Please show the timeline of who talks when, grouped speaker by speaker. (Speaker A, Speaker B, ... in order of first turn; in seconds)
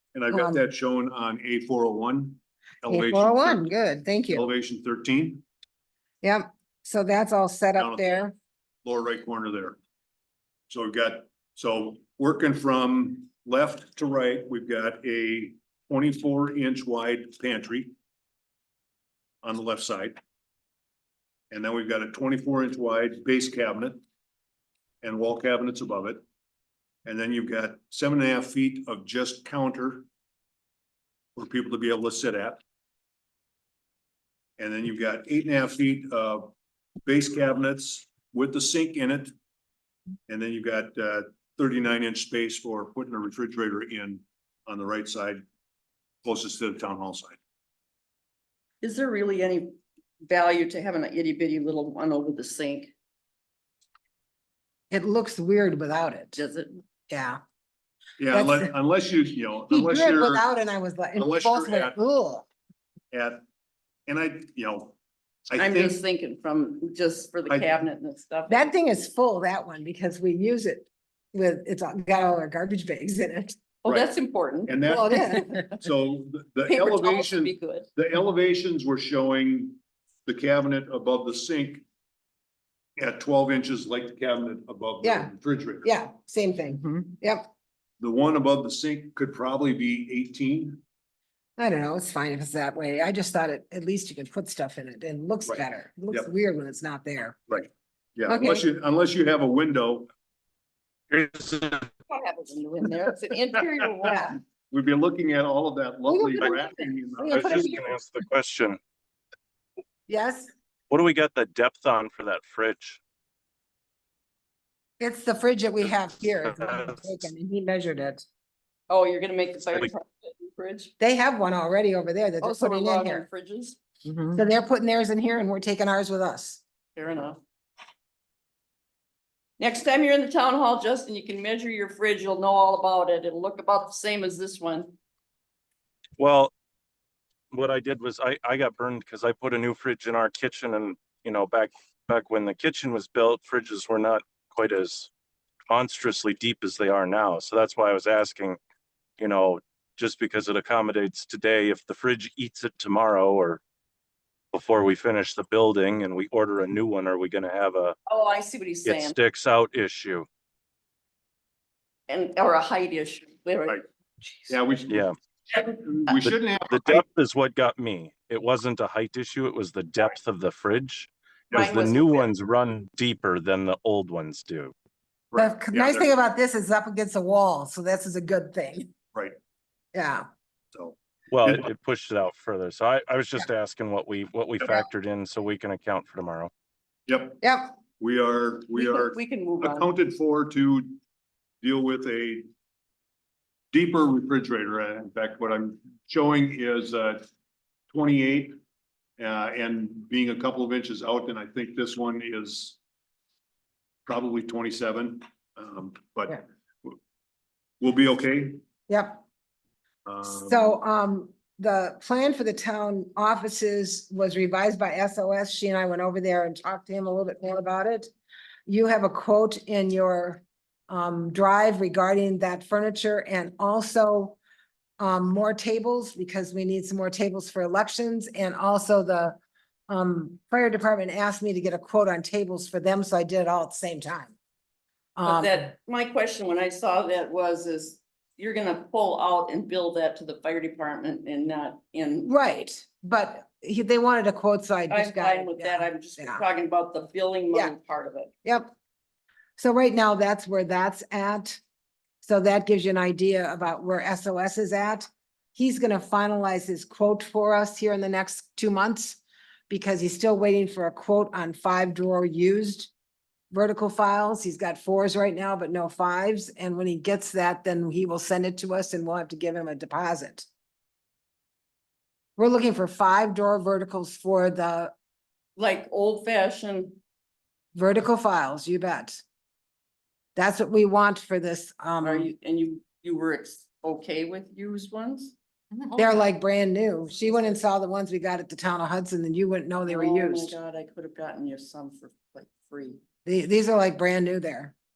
Speaker A: 0.1-3.7, 4.3-5.4, 7.8-8.2, 8.8-9.8, 10.7-17.9, 19.4-20.2, 21.5-24.0, 25.0-26.2, 27.0-30.1, 31.4-32.6, 34.6-36.5, 37.0-39.3, 40.3-45.4, 46.2-47.4, 58.2-60.4, 61.1-62.0, 63.1-63.4, 64.1-65.0, 65.5-66.0, 67.5-67.8, 74.7-81.8, 83.0-85.9, 88.0-90.8, 95.5-96.3, 97.5-100.1, 104.7-107.6, 164.5-167.0, 175.3-176.1, 180.7-181.7, 187.1-187.4, 188.0-191.0, 191.6-192.5, 193.7-197.2, 197.9-198.6, 199.2-202.8, 204.1-206.9, 207.8-208.6, 210.1-210.8
Speaker B: 0.3-0.6, 2.9-4.5, 6.2-8.3, 54.9-56.4, 57.1-57.4, 58.3-58.7, 59.7-62.5, 68.5-73.6, 74.9-75.6, 85.0-85.3, 85.8-87.5, 91.6-97.4, 98.3-98.6, 104.1-104.3, 107.2-107.8, 110.1-110.5, 115.0-118.2, 121.0-123.2, 124.3-126.6, 175.3-178.9, 179.9-180.3, 187.4-187.8, 208.9-209.2, 210.2-218.1, 218.7-224.4, 225.0-229.4, 229.9-234.3, 235.2-235.7, 242.2-246.4, 248.4-248.7, 249.6-251.6, 252.2-262.9, 263.5-270.5, 272.4-274.9, 277.7-279.2, 280.4-282.3, 285.9-290.6, 293.2-294.7
Speaker C: 48.8-52.9, 56.3-56.8, 65.6-68.7, 73.8-75.8, 76.7-77.9, 102.1-104.4, 106.1-107.7, 118.9-120.9, 122.4-123.8, 126.9-127.4, 129.6-134.9, 158.1-159.2, 162.1-163.8, 171.5-172.3, 188.7-189.9, 235.2-242.3, 244.9-248.3, 275.6-277.0, 282.0-285.9, 289.9-293.0
Speaker D: 101.1-101.9, 107.3-108.8, 110.9-113.0, 136.2-136.5, 137.5-145.1, 145.7-148.6, 149.2-153.6, 154.5-157.9, 158.8-160.2, 166.2-174.7, 181.3-186.5